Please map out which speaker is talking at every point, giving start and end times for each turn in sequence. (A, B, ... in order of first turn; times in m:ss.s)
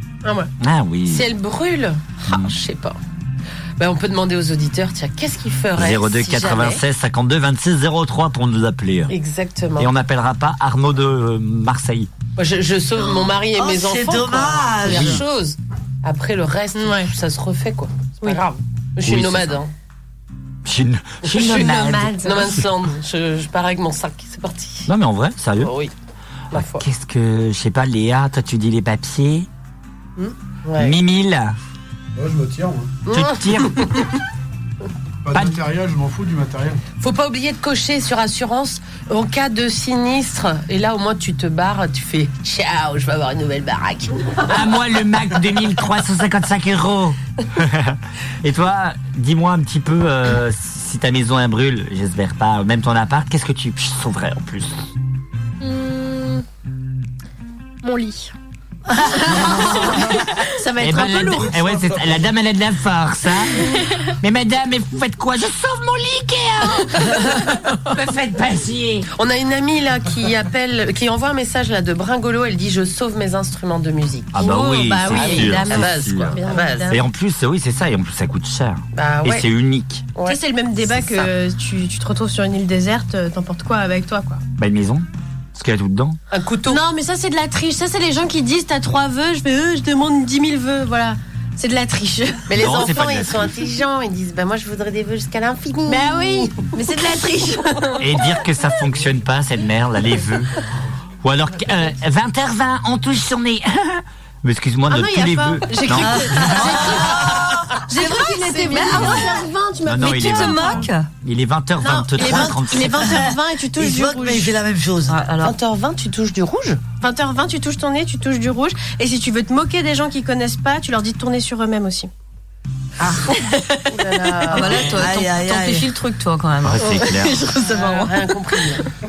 0:00.2-0:00.5 A
0:00.6-0:01.3 B
0:01.1-0:03.0 C
0:03.8-0:06.8 C
0:05.8-0:09.1 B
0:09.1-0:09.9 C
0:09.8-0:12.1 B
0:12.4-0:19.7 C
0:13.5-0:15.2 D
0:16.8-0:17.1 A
0:19.0-0:19.6 B
0:20.6-0:22.4 B
0:21.3-0:21.7 C
0:21.3-0:22.6 A
0:22.2-0:24.9 C
0:24.9-0:25.7 B
0:25.6-0:25.9 C
0:26.5-0:26.8 C
0:26.5-0:29.5 B
0:30.2-0:31.0 C
0:30.8-0:31.6 B
0:32.2-0:33.0 E
0:33.1-0:33.9 B
0:33.1-0:34.0 C
0:35.2-0:36.8 E
0:35.3-0:35.6 B
0:37.0-0:44.4 C
0:44.4-0:54.9 B
0:55.6-0:56.4 A
0:57.8-0:58.3 A
0:58.9-1:01.9 A
0:59.4-0:59.9 B
1:00.8-1:09.1 B
1:09.2-1:14.5 C
1:14.3-1:20.0 B
1:14.4-1:17.0 A
1:15.0-1:16.9 C
1:18.9-1:19.4 C
1:20.2-1:24.4 A
1:21.0-1:21.3 C
1:24.6-1:26.2 B
1:26.3-1:26.8 C
1:26.7-1:32.5 A
1:32.5-1:36.6 C
1:32.5-1:33.6 B
1:35.9-1:38.1 A
1:38.0-1:40.5 B
1:41.2-1:47.0 B
1:44.9-1:50.9 A
1:46.0-1:47.5 D
1:46.6-1:47.1 F
1:47.9-1:49.4 F
1:49.8-1:53.2 B
1:50.0-1:51.1 F
1:51.8-1:54.5 A
1:52.2-1:55.2 D
1:55.1-1:55.6 F
1:55.4-1:56.8 C
1:57.0-2:02.1 A
2:03.9-2:04.9 C
2:04.5-2:07.1 F
2:04.7-2:05.9 D
2:06.6-2:07.4 B
2:06.9-2:08.2 A
2:07.7-2:08.8 C